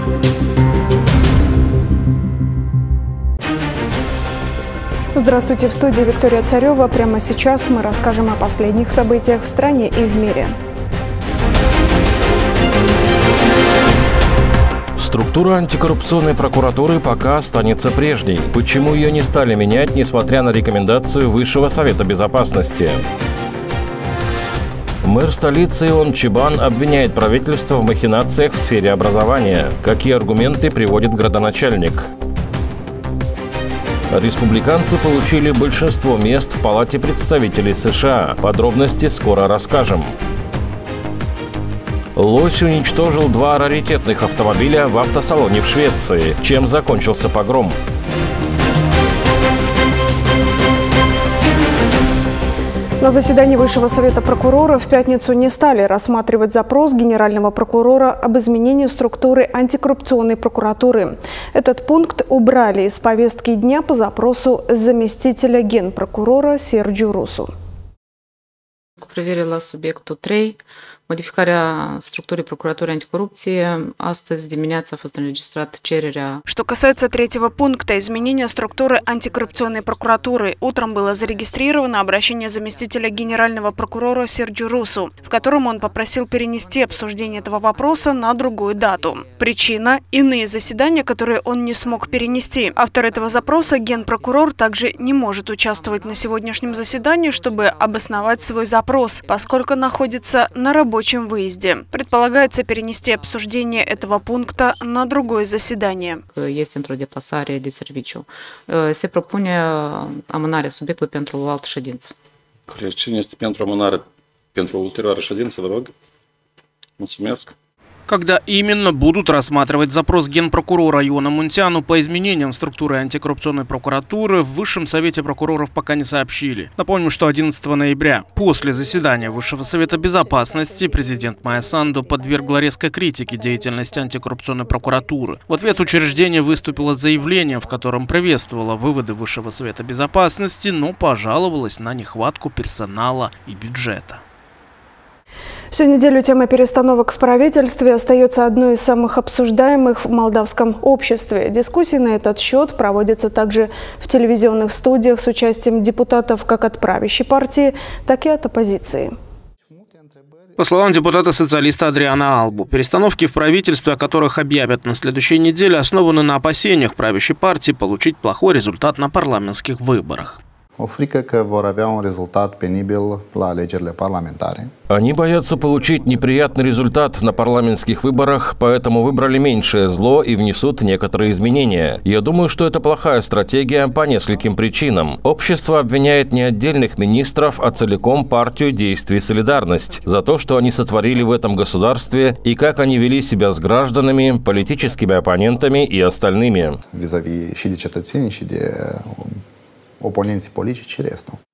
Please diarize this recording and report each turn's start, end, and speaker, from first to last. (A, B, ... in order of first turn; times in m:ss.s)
0:05.2-0:10.5 A
0:15.0-0:23.0 B
0:25.0-0:32.1 B
0:34.1-0:40.1 B
0:42.2-0:47.8 B
0:53.0-1:07.5 A
1:09.0-1:16.4 C
1:16.5-1:46.2 A
1:46.3-1:52.1 C
1:52.7-1:55.9 D
1:57.0-1:57.5 D
1:58.1-2:24.2 E
2:25.7-2:39.1 A
2:40.6-2:50.4 E
2:50.8-2:54.7 F
2:54.9-3:16.8 B
3:16.9-3:19.4 F
3:20.0-3:21.4 F